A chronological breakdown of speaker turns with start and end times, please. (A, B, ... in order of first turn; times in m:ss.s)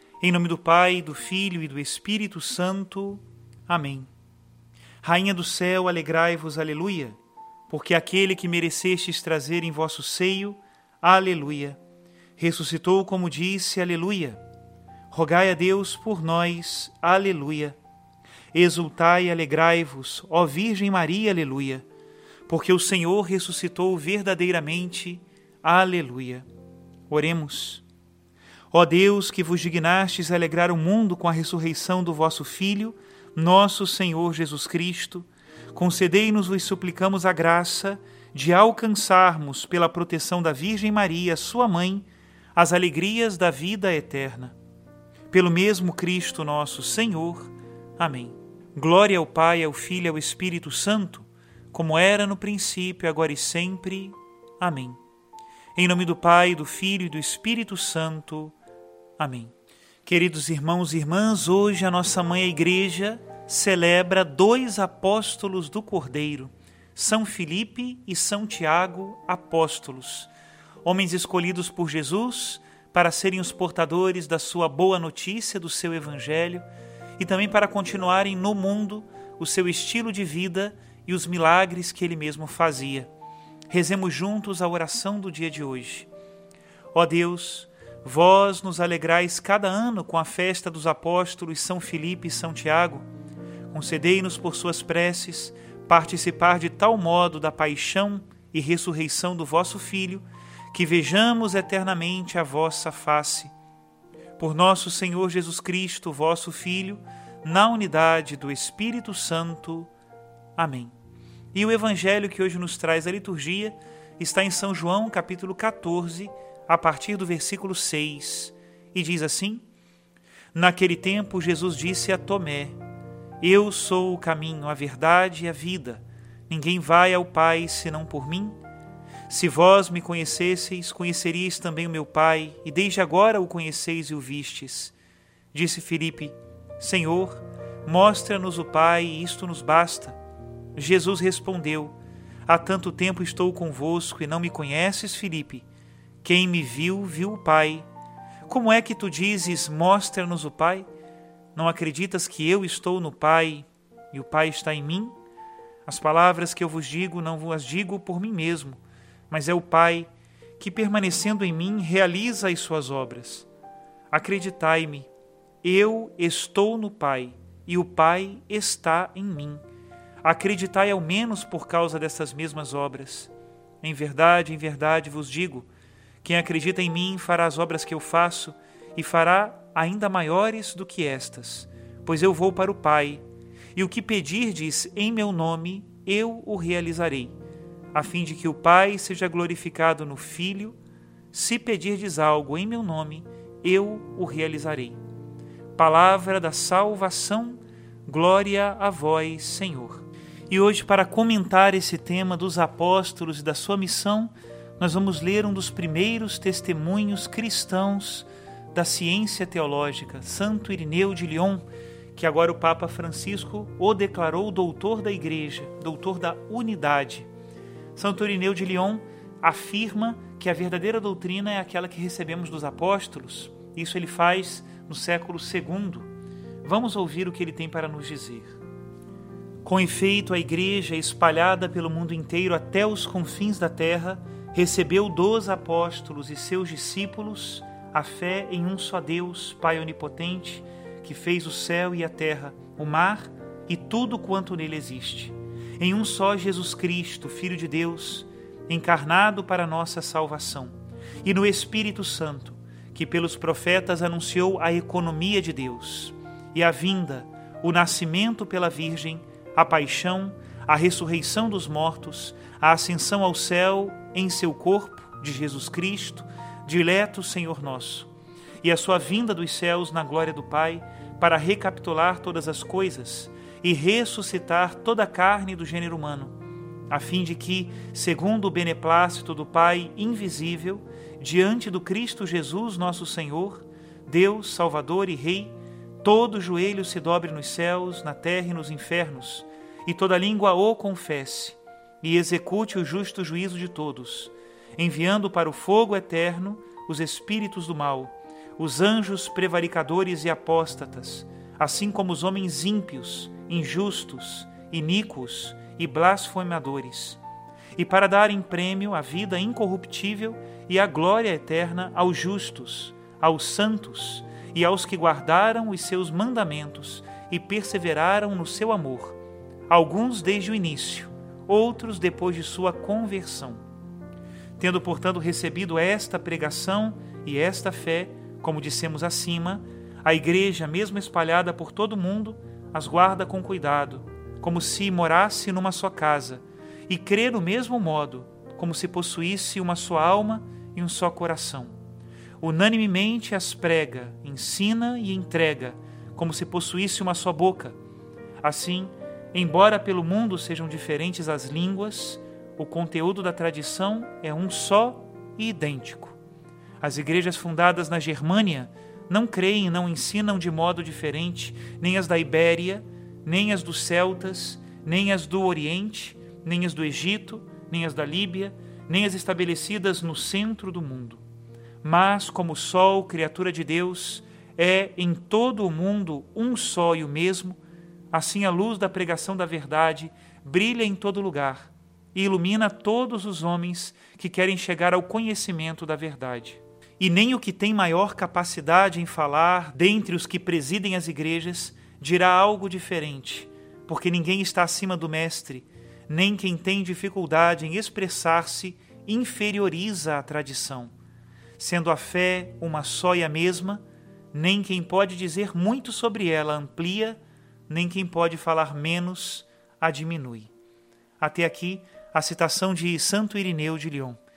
0:00.2-0:04.1 A
0:05.0-0:07.2 A
0:07.7-0:11.8 A
0:12.4-0:14.4 A
0:15.1-0:17.8 A
0:18.5-0:21.8 A
0:22.5-0:26.5 A
0:27.1-0:27.8 A
0:28.7-0:44.5 A
0:45.3-0:55.0 A
0:55.7-0:58.5 A
0:59.2-0:59.5 A
1:00.0-1:10.3 A
1:10.8-1:16.6 A
1:17.2-1:23.1 A
1:23.7-1:26.1 A
1:26.9-1:33.0 A
1:33.7-1:43.5 A
1:44.4-1:49.9 A
1:50.6-1:50.9 A
1:51.5-1:59.6 A
2:00.5-2:02.8 A
2:03.4-2:08.6 A
2:09.3-2:14.9 A
2:15.5-2:20.2 A
2:20.8-2:21.9 A
2:22.4-2:25.6 A
2:26.2-2:27.9 A
2:28.5-2:30.9 A
2:31.5-2:35.1 A
2:35.8-2:43.5 A
2:44.1-2:45.1 A
2:45.6-2:49.6 A
2:50.2-2:53.3 A
2:53.8-2:55.7 A
2:56.2-3:03.2 A
3:03.7-3:07.3 A
3:07.9-3:10.8 A
3:11.3-3:15.0 A
3:15.8-3:31.6 A
3:32.1-3:37.3 A
3:38.0-3:46.1 A
3:46.6-3:48.6 A
3:49.6-4:28.1 A
4:28.6-4:36.3 A
4:36.9-5:07.2 A
5:07.8-5:19.2 A
5:19.7-5:23.6 A
5:24.6-5:41.8 A
5:42.4-5:47.8 A
5:48.4-5:56.2 A
5:56.8-6:11.2 A
6:11.8-6:17.6 A
6:18.1-6:40.9 A
6:41.6-6:50.5 A
6:51.2-6:54.2 A